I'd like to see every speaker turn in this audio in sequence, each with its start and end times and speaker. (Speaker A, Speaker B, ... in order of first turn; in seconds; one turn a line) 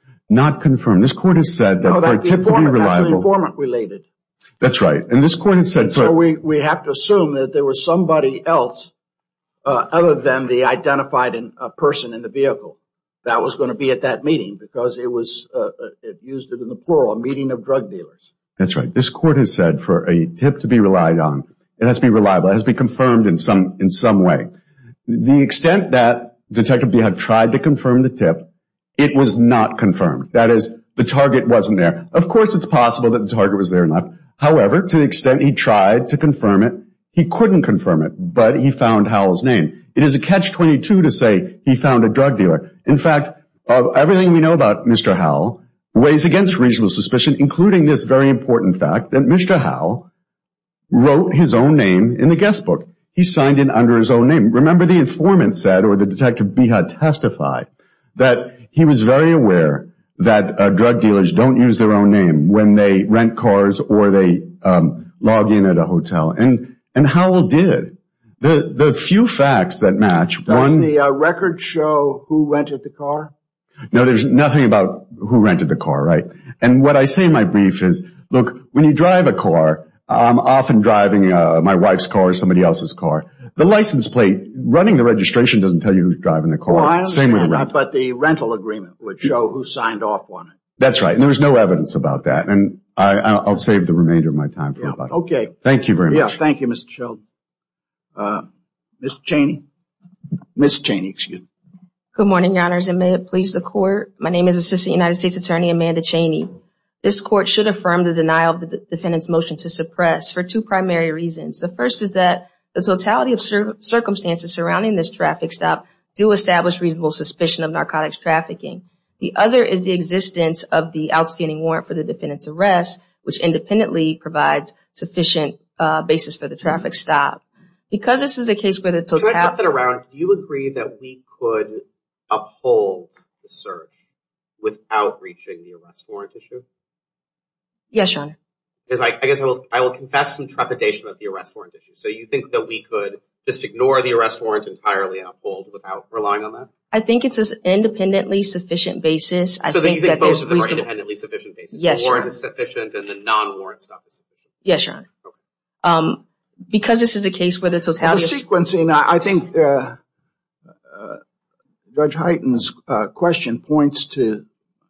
Speaker A: 0.3-3.3
Speaker B: 1.8-4.0
Speaker A: 4.6-6.2
Speaker B: 5.8-8.9
Speaker B: 9.6-18.2
Speaker A: 18.6-24.5
Speaker A: 25.1-50.1
Speaker A: 50.9-70.9
Speaker B: 70.5-73.3
Speaker A: 73.9-87.7
Speaker B: 86.7-90.5
Speaker A: 90.8-96.4
Speaker B: 94.8-95.5
Speaker B: 96.1-97.2
Speaker B: 98.2-98.5
Speaker B: 99.0-99.7
Speaker B: 100.6-101.5
Speaker C: 102.2-129.6
Speaker D: 129.2-133.9
Speaker D: 134.6-136.6
Speaker C: 137.9-138.4
Speaker D: 138.9-146.7
Speaker C: 146.9-150.9
Speaker D: 149.7-154.3
Speaker C: 151.7-152.3
Speaker C: 154.6-155.1
Speaker C: 155.8-158.4
Speaker B: 158.0-160.0
Speaker B: 160.9-161.2
Speaker B: 161.9-164.4